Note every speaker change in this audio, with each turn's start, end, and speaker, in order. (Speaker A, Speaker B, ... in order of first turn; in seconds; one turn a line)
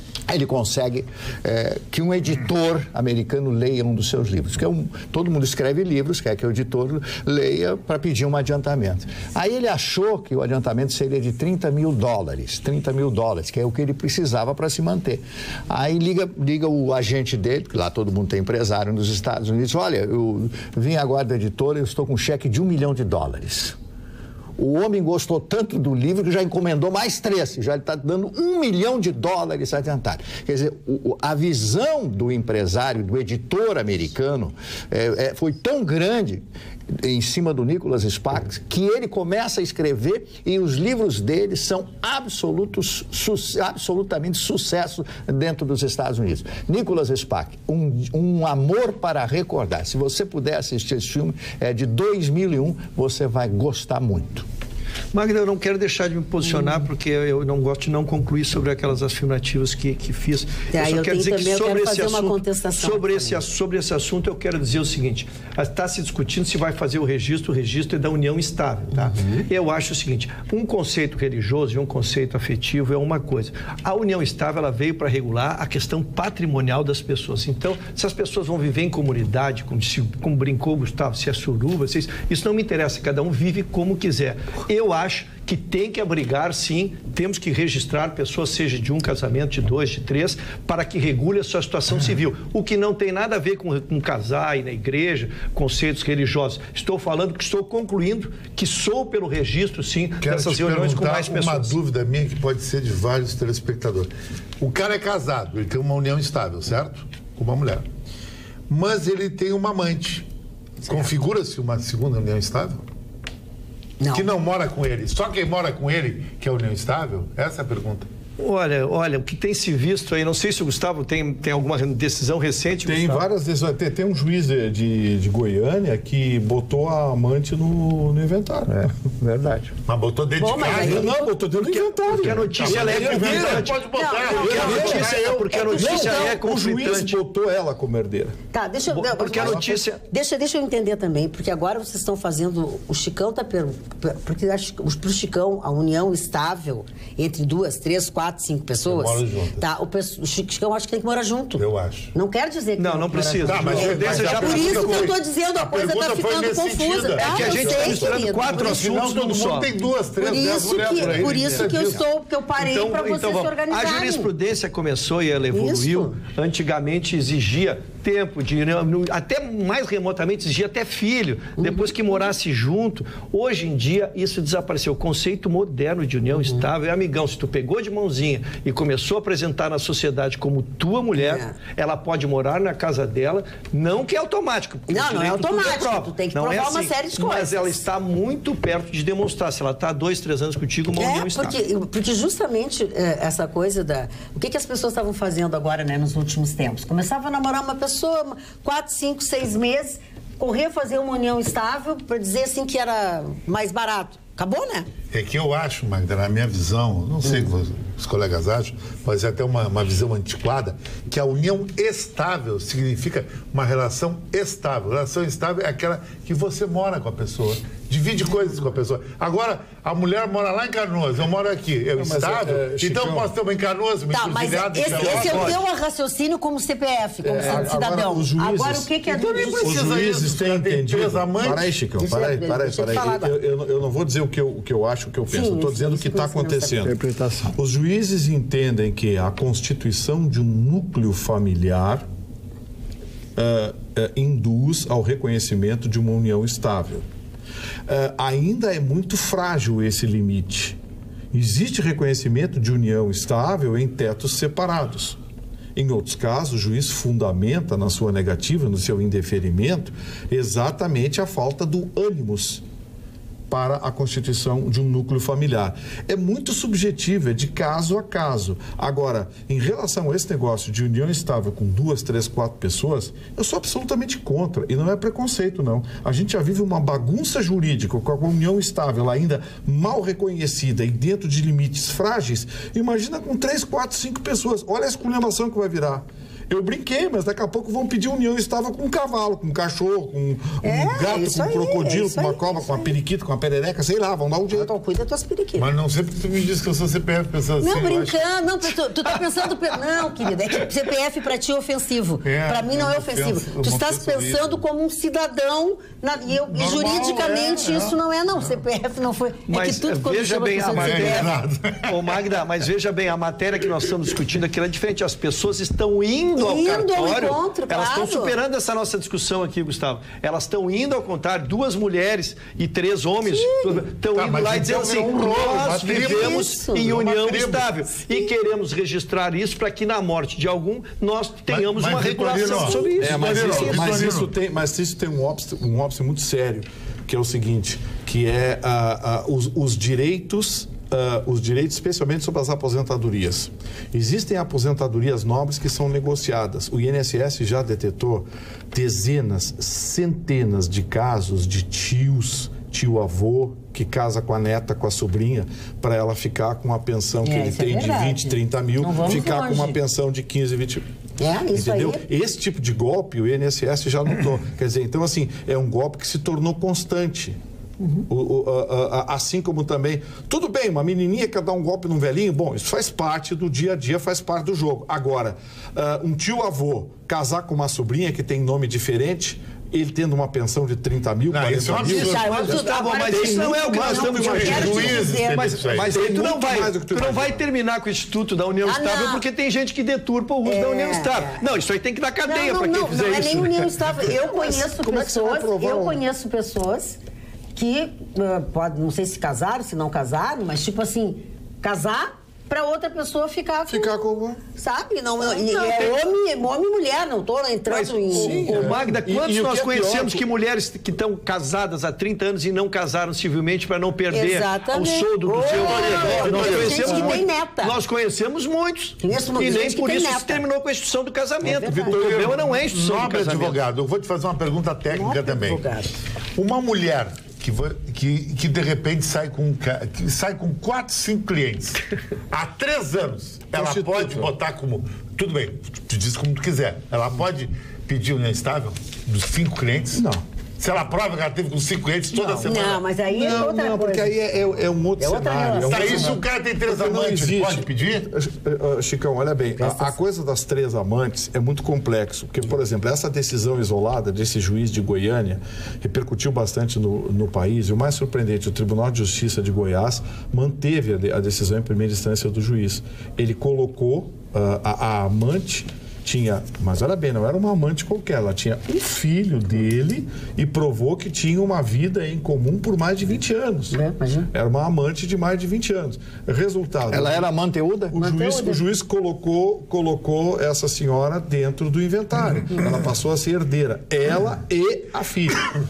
Speaker A: 0.3-23.8
Speaker A: 24.6-54.5
Speaker B: 55.1-101.8
Speaker C: 60.7-63.4
Speaker D: 100.2-107.8
Speaker D: 108.7-110.2
Speaker D: 110.8-112.8
Speaker C: 114.0-114.3
Speaker D: 114.1-118.1
Speaker B: 118.4-123.2
Speaker E: 122.9-128.8
Speaker A: 128.7-129.7
Speaker D: 129.8-131.1
Speaker C: 130.4-131.3
Speaker E: 130.7-133.7
Speaker B: 131.5-137.2
Speaker D: 132.3-135.5
Speaker C: 133.9-136.2
Speaker E: 134.5-135.1
Speaker E: 135.7-138.4
Speaker C: 138.5-158.8
Speaker B: 138.9-140.0
Speaker D: 148.8-149.6
Speaker D: 151.6-152.1
Speaker B: 152.8-155.1
Speaker D: 153.4-162.0
Speaker B: 157.2-159.7
Speaker E: 157.4-158.2
Speaker C: 160.2-164.3
Speaker B: 162.6-191.6
Speaker C: 165.5-166.2
Speaker C: 171.6-171.9
Speaker C: 181.2-181.5
Speaker C: 184.9-187.8
Speaker C: 191.0-204.9
Speaker D: 205.1-225.6
Speaker E: 221.9-223.3
Speaker C: 224.1-229.8
Speaker E: 224.9-225.5
Speaker E: 227.2-236.9
Speaker D: 229.1-231.7
Speaker C: 232.0-233.3
Speaker C: 235.3-236.8
Speaker A: 236.8-237.5
Speaker E: 237.5-242.0
Speaker E: 243.3-247.1
Speaker E: 247.9-250.8
Speaker E: 251.3-255.2
Speaker E: 255.8-262.6
Speaker E: 263.5-294.7
Speaker C: 290.6-292.9
Speaker C: 294.5-295.7
Speaker D: 295.6-298.2
Speaker C: 297.6-311.3
Speaker D: 302.2-304.6
Speaker D: 306.3-308.0
Speaker B: 309.5-311.3
Speaker D: 310.7-312.1
Speaker B: 311.9-334.0
Speaker C: 316.4-318.3
Speaker C: 323.2-323.8
Speaker D: 324.1-327.6
Speaker C: 325.9-327.0
Speaker D: 331.5-334.3
Speaker C: 332.6-332.9
Speaker E: 333.0-360.8
Speaker C: 357.2-359.8
Speaker C: 361.2-362.0
Speaker E: 361.5-367.4
Speaker C: 367.8-368.1
Speaker E: 368.1-385.0
Speaker D: 381.3-382.6
Speaker B: 381.8-393.7
Speaker C: 381.8-385.4
Speaker D: 384.1-386.0
Speaker E: 385.8-387.4
Speaker C: 388.6-389.2
Speaker C: 390.4-391.4
Speaker C: 392.2-397.0
Speaker E: 394.0-396.0
Speaker C: 397.5-403.9
Speaker E: 403.7-404.4
Speaker C: 404.6-408.8
Speaker B: 405.3-406.0
Speaker B: 407.7-423.6
Speaker E: 408.1-410.2
Speaker C: 414.1-417.8
Speaker E: 415.7-417.2
Speaker C: 419.0-420.4
Speaker C: 421.4-421.9
Speaker E: 421.5-422.6
Speaker D: 421.9-425.6
Speaker C: 424.9-425.9
Speaker D: 426.3-431.8
Speaker D: 432.3-440.0
Speaker E: 433.5-434.3
Speaker E: 439.9-440.2
Speaker D: 440.6-442.8
Speaker E: 442.1-473.7
Speaker C: 442.4-444.1
Speaker C: 445.0-446.2
Speaker D: 445.6-448.1
Speaker C: 449.6-450.0
Speaker C: 473.7-474.3
Speaker E: 474.3-477.2
Speaker A: 476.9-477.9
Speaker E: 477.9-485.4
Speaker C: 477.9-478.6